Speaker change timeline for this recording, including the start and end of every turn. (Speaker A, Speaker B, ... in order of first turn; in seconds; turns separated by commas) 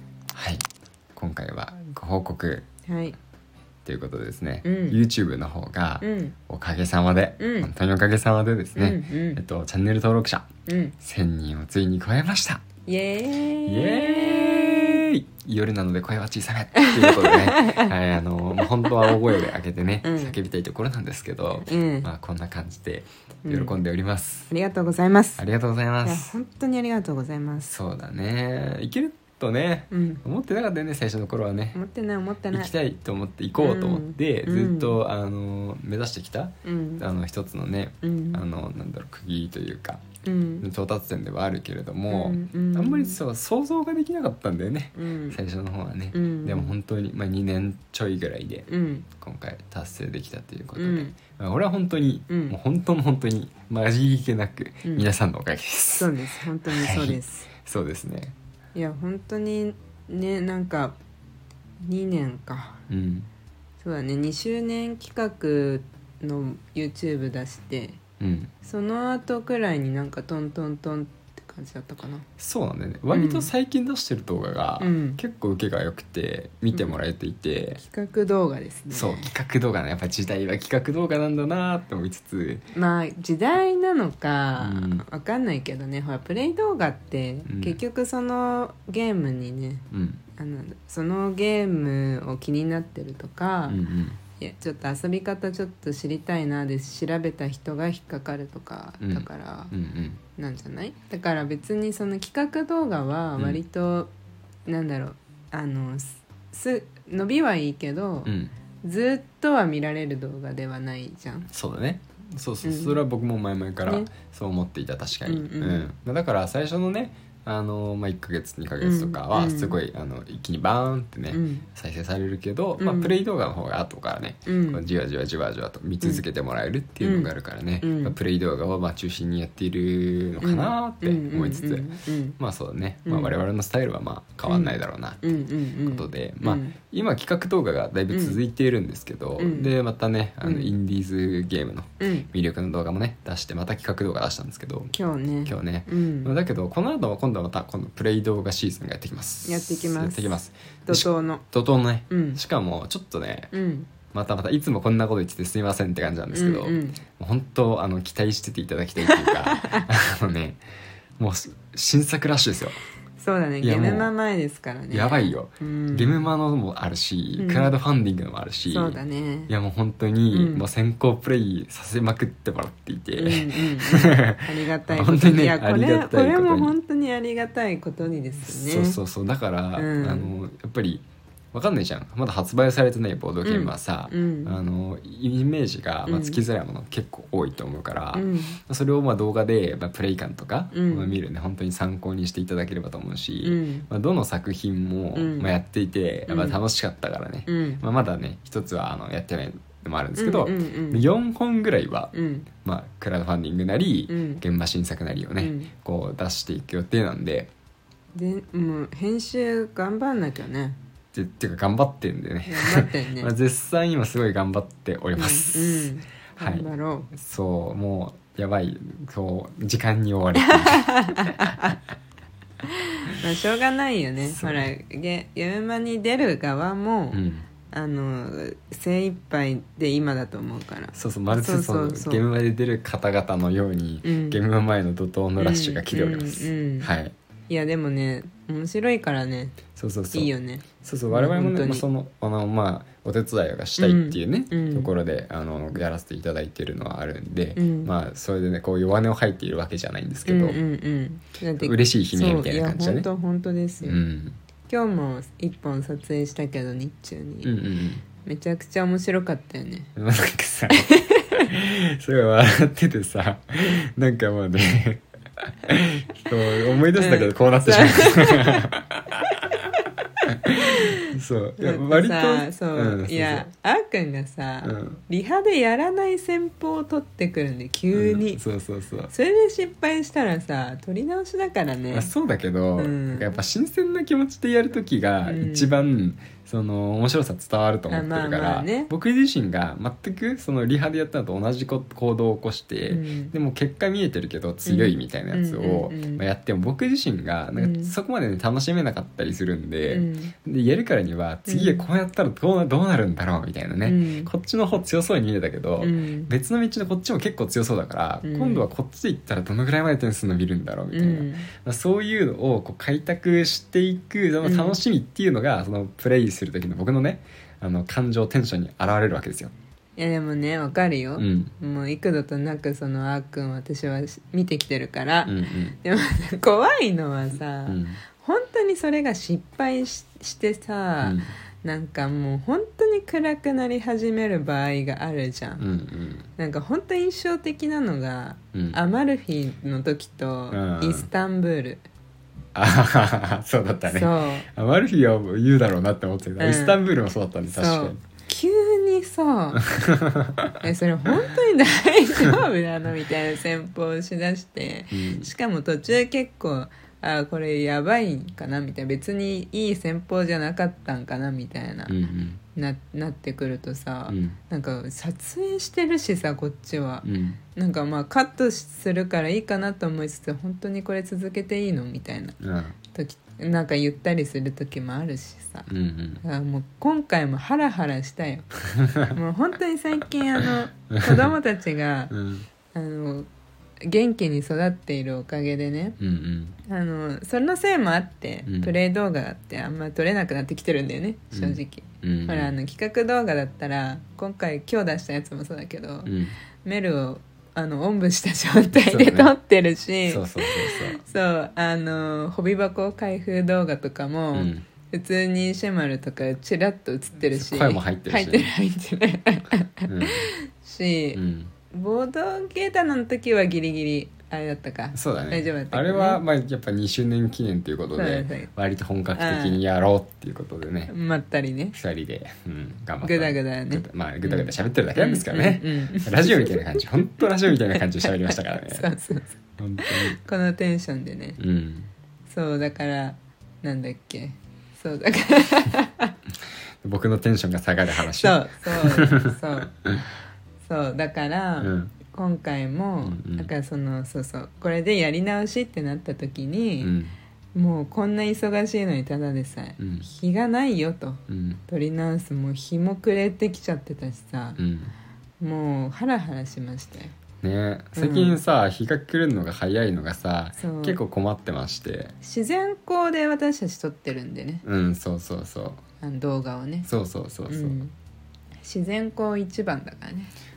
Speaker A: 0.3-2.6, Speaker B: 2.9-3.1, Speaker A: 3.8-12.6, Speaker B: 4.6-5.0, Speaker B: 6.0-6.3, Speaker B: 7.4-7.7, Speaker B: 8.8-9.4, Speaker B: 10.7-10.9, Speaker B: 12.8-15.0, Speaker A: 13.6-24.5, Speaker B: 16.8-17.9, Speaker B: 20.0-20.4, Speaker B: 21.6-22.1, Speaker B: 23.4-23.8, Speaker B: 24.5-25.4, Speaker A: 25.4-26.4, Speaker B: 26.0-27.7, Speaker A: 27.7-31.8, Speaker B: 29.9-30.2, Speaker B: 31.7-32.7, Speaker A: 32.5-40.0, Speaker B: 33.6-35.0, Speaker B: 36.6-37.0, Speaker B: 38.0-38.4, Speaker B: 40.2-40.6, Speaker A: 40.6-56.1, Speaker B: 42.1-43.2, Speaker B: 45.0-45.4, Speaker B: 46.1-46.7, Speaker B: 48.7-49.0, Speaker B: 50.8-51.1, Speaker B: 52.3-52.6, Speaker B: 56.0-57.5, Speaker A: 56.7-58.4, Speaker B: 58.7-61.0, Speaker B: 61.8-62.8, Speaker A: 62.9-63.3, Speaker B: 63.8-68.0, Speaker A: 68.2-68.5, Speaker B: 68.6-72.2, Speaker A: 72.4-77.8, Speaker B: 73.1-73.5, Speaker B: 74.8-75.2, Speaker B: 76.7-77.0, Speaker B: 77.8-79.3, Speaker A: 78.9-82.6, Speaker B: 82.7-89.8, Speaker A: 84.6-85.0, Speaker A: 87.5-87.8, Speaker A: 89.9-90.2, Speaker B: 90.3-93.8, Speaker A: 93.7-94.2, Speaker B: 94.3-99.7, Speaker A: 99.0-100.2, Speaker B: 100.3-104.1, Speaker B: 104.7-111.5, Speaker A: 108.2-108.5, Speaker A: 111.5-144.9, Speaker B: 112.6-113.0, Speaker B: 113.8-114.1, Speaker B: 115.2-115.9, Speaker B: 118.8-119.8, Speaker B: 121.3-121.6, Speaker B: 122.8-123.1, Speaker B: 124.5-124.8, Speaker B: 127.0-127.3, Speaker B: 127.8-128.1, Speaker B: 130.4-132.4, Speaker B: 133.1-133.3, Speaker B: 134.5-136.7, Speaker B: 138.1-138.4, Speaker B: 139.4-139.7, Speaker B: 140.4-140.7, Speaker B: 142.0-142.3, Speaker B: 144.9-146.3, Speaker A: 145.4-153.5, Speaker B: 149.4-151.4, Speaker B: 152.1-152.4, Speaker B: 153.5-153.9, Speaker A: 154.1-160.6, Speaker B: 156.3-157.0, Speaker B: 159.0-159.8, Speaker A: 161.2-162.8, Speaker B: 163.2-166.2, Speaker A: 163.6-164.1, Speaker A: 164.9-176.7, Speaker B: 167.4-167.7, Speaker B: 168.7-169.5, Speaker B: 170.3-170.6, Speaker B: 173.2-179.0, Speaker A: 178.4-202.1, Speaker B: 179.7-180.3, Speaker B: 183.4-184.6, Speaker B: 186.1-186.4, Speaker B: 188.1-188.6, Speaker B: 190.7-191.1, Speaker B: 193.4-193.9, Speaker B: 195.2-195.5, Speaker B: 196.3-196.6, Speaker B: 197.5-197.8, Speaker B: 200.2-201.0, Speaker B: 202.1-202.5, Speaker A: 202.6-207.5, Speaker B: 204.1-204.4, Speaker B: 205.4-205.7, Speaker B: 208.1-210.8, Speaker A: 211.1-221.2, Speaker B: 212.5-213.3, Speaker B: 215.2-217.1, Speaker B: 220.4-221.8, Speaker B: 222.7-232.2, Speaker A: 224.2-224.7, Speaker A: 227.1-227.5, Speaker A: 230.9-237.1, Speaker B: 234.0-234.4, Speaker B: 235.4-236.9, Speaker B: 237.5-239.6, Speaker A: 239.8-240.3, Speaker B: 240.1-241.8, Speaker A: 240.8-250.6, Speaker B: 243.8-244.9, Speaker B: 247.6-247.9, Speaker B: 250.2-254.0, Speaker A: 251.6-253.1, Speaker A: 253.8-254.4, Speaker B: 254.7-257.6, Speaker A: 257.4-258.0, Speaker B: 258.2-259.9, Speaker A: 259.9-265.0, Speaker B: 260.7-261.5, Speaker A: 265.6-269.6, Speaker B: 266.9-268.6, Speaker A: 270.4-273.4, Speaker B: 271.6-278.4, Speaker A: 274.6-275.0, Speaker A: 277.9-279.1, Speaker B: 279.1-282.1, Speaker A: 281.9-319.5, Speaker B: 282.8-283.3, Speaker B: 285.2-285.8, Speaker B: 287.9-288.9, Speaker B: 292.9-293.3, Speaker B: 294.6-296.2, Speaker B: 297.6-297.9, Speaker B: 299.9-300.3, Speaker B: 301.5-301.8, Speaker B: 303.8-304.3, Speaker B: 305.8-306.3, Speaker B: 308.2-308.6, Speaker B: 310.9-311.5, Speaker B: 314.4-314.8, Speaker B: 320.0-335.6, Speaker A: 321.2-321.5, Speaker A: 325.2-325.8, Speaker A: 327.7-328.0, Speaker A: 331.0-331.3, Speaker A: 335.6-336.3, Speaker B: 336.4-341.8, Speaker A: 338.5-338.8, Speaker A: 340.5-341.1, Speaker A: 342.5-348.0, Speaker B: 343.8-344.5, Speaker B: 346.4-346.8, Speaker B: 347.5-349.6, Speaker A: 349.6-350.6, Speaker B: 350.6-362.0, Speaker A: 354.9-355.3, Speaker A: 361.9-362.4, Speaker B: 362.5-372.4, Speaker A: 364.1-364.4, Speaker A: 367.0-367.4, Speaker A: 372.4-372.8, Speaker B: 372.9-375.7, Speaker A: 375.7-376.2, Speaker B: 376.2-378.5, Speaker B: 379.1-382.1, Speaker A: 382.1-382.4, Speaker B: 382.7-383.3, Speaker B: 383.8-386.0, Speaker A: 386.0-386.6, Speaker B: 386.6-396.1, Speaker A: 388.4-388.7, Speaker A: 391.3-392.5, Speaker A: 396.0-396.3, Speaker B: 396.6-411.2, Speaker A: 398.8-399.4, Speaker A: 400.0-401.0, Speaker A: 404.3-404.6, Speaker A: 407.3-408.5, Speaker A: 409.9-410.3, Speaker A: 411.1-411.5, Speaker B: 411.7-416.2, Speaker A: 414.9-420.9, Speaker B: 417.9-418.5, Speaker B: 419.1-419.6, Speaker B: 420.9-421.8, Speaker A: 421.7-428.9, Speaker B: 423.0-431.4, Speaker A: 429.6-430.2, Speaker A: 431.4-431.9, Speaker B: 432.3-436.1, Speaker A: 436.8-440.0, Speaker B: 438.0-439.7, Speaker B: 440.6-446.9, Speaker A: 441.6-441.9, Speaker A: 443.0-443.5, Speaker A: 446.8-447.1, Speaker B: 447.5-454.6, Speaker A: 449.8-450.1, Speaker A: 451.3-451.6, Speaker A: 454.6-454.9, Speaker B: 455.4-457.1, Speaker A: 457.4-462.1, Speaker B: 457.9-458.4, Speaker B: 460.6-461.0, Speaker B: 462.2-464.6, Speaker A: 464.6-465.8, Speaker B: 466.0-466.9, Speaker A: 466.9-467.8, Speaker B: 467.5-467.9, Speaker B: 468.6-470.3